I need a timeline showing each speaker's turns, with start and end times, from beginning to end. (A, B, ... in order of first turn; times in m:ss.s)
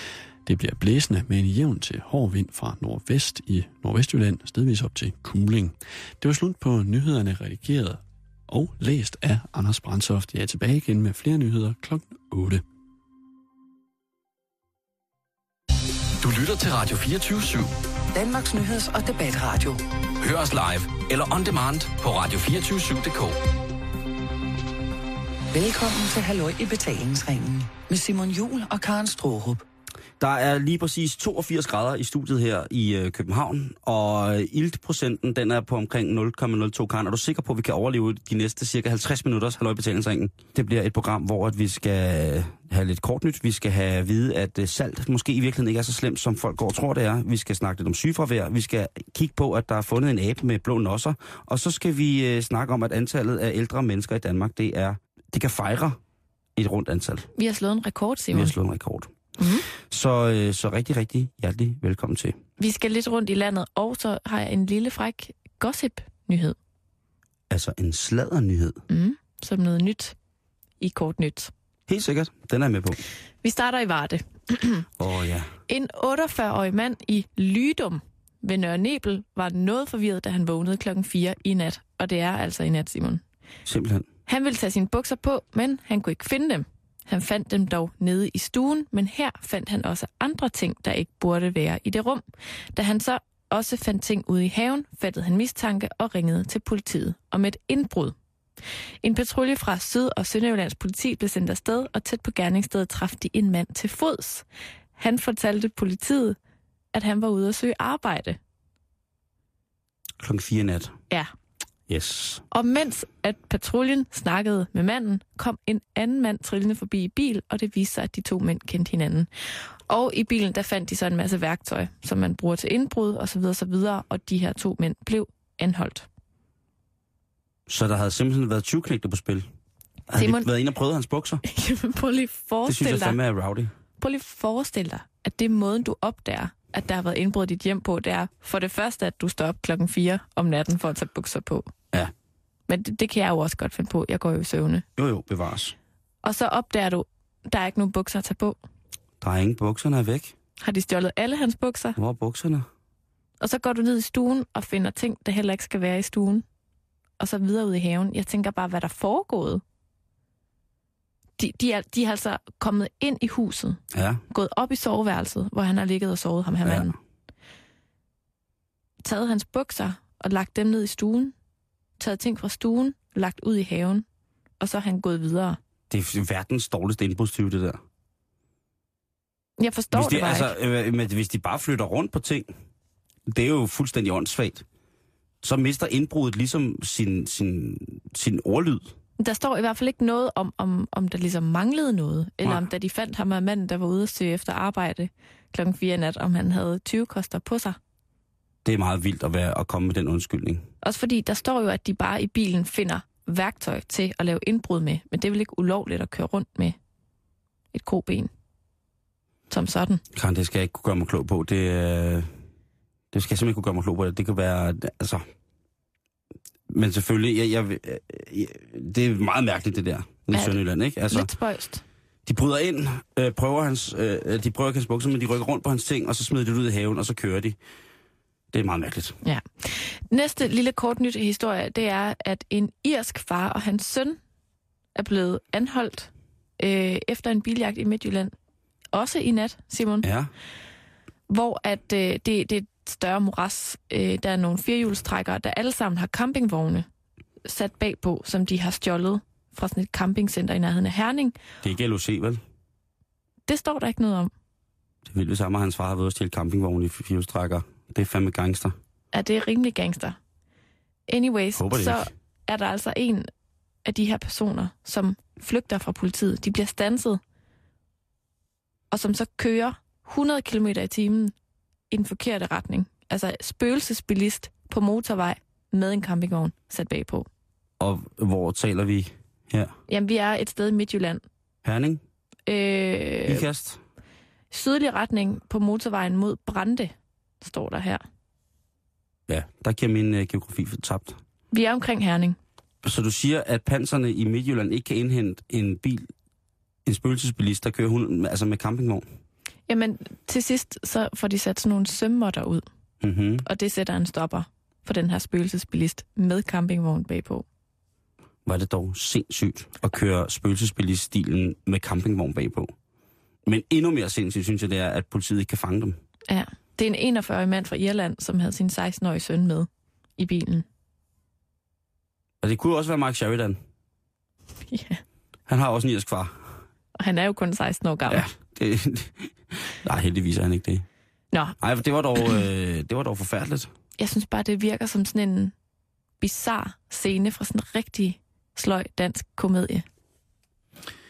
0:00.5-0:12.6 A
0:16.2-0:17.7 B
0:18.1-0:19.8 C
0:20.2-0:23.4 B
0:25.5-0:29.6 C
0:30.2-0:56.0 D
0:56.6-0:57.3 D
0:57.4-0:58.6 E
0:58.3-0:59.1 D
0:59.4-0:59.7 E
0:59.7-1:02.4 D
1:02.6-1:06.6 E
1:07.5-1:08.8 D
1:08.9-1:10.2 E
1:10.8-1:11.5 E
1:11.9-1:13.0 D
1:13.4-1:14.9 E
1:15.0-1:15.5 D
1:15.7-1:23.2 E
1:23.7-1:24.1 D
1:24.3-1:32.2 E
1:32.8-1:38.2 E
1:39.0-1:44.4 E
1:45.0-1:46.4 E
1:46.9-1:48.4 E
1:50.2-1:51.0 D
1:51.9-1:52.4 D
1:52.5-1:59.3 E
1:59.9-2:06.1 E
2:07.7-2:09.5 D
2:10.1-2:11.4 D
2:10.2-2:10.5 E
2:11.4-2:13.2 E
2:12.7-2:13.7 D
2:14.0-2:21.7 E
2:22.7-2:24.8 E
2:25.0-2:25.8 D
2:26.2-2:28.6 E
2:29.2-2:30.4 D
2:30.6-2:32.0 E
2:32.0-2:32.7 D
2:33.4-2:36.4 E
2:37.2-2:39.6 E
2:41.4-2:43.8 E
2:43.9-2:44.2 D
2:44.3-2:47.0 E
2:46.6-2:46.9 D
2:49.0-2:51.3 E
2:52.0-2:54.0 E
2:54.6-2:55.6 E
2:55.9-2:57.8 D
2:59.6-3:00.5 E
2:59.9-3:02.5 D
3:03.3-3:04.6 D
3:05.4-3:08.9 D
3:09.2-3:17.8 E
3:18.6-3:20.7 D
3:20.8-3:26.8 E
3:27.7-3:28.3 E
3:29.5-3:30.0 E
3:30.1-3:32.3 D
3:33.1-3:35.2 D
3:36.7-3:41.3 D
3:40.3-3:40.6 E
3:41.1-3:41.8 E
3:42.3-3:47.6 D
3:48.5-3:49.2 D
3:49.2-3:54.2 E
3:55.0-3:58.3 E
3:58.9-4:00.1 E
4:00.0-4:00.3 D
4:01.3-4:06.9 E
4:07.4-4:11.4 E
4:11.6-4:12.4 D
4:13.5-4:14.3 E
4:15.0-4:18.8 D
4:19.1-4:20.2 E
4:21.1-4:23.3 E
4:21.6-4:22.1 D
4:23.8-4:27.2 E
4:28.9-4:31.3 E
4:31.9-4:37.3 E
4:37.8-4:39.7 D
4:39.9-4:41.2 E
4:41.6-4:42.0 D
4:42.5-4:43.4 E
4:43.3-4:43.8 D
4:44.5-4:48.0 E
4:49.3-4:51.2 D
4:51.5-4:52.4 E
4:52.8-4:56.1 D
4:56.8-4:59.0 D
4:59.7-5:02.6 E
5:03.0-5:03.5 D
5:03.4-5:07.4 E
5:08.4-5:12.7 D
5:13.5-5:16.0 D
5:16.3-5:20.7 E
5:22.4-5:23.6 D
5:24.7-5:25.0 E
5:25.5-5:26.5 D
5:27.0-5:28.2 E
5:28.1-5:30.9 D
5:31.6-5:33.7 D
5:34.0-5:35.5 E
5:36.2-5:39.8 E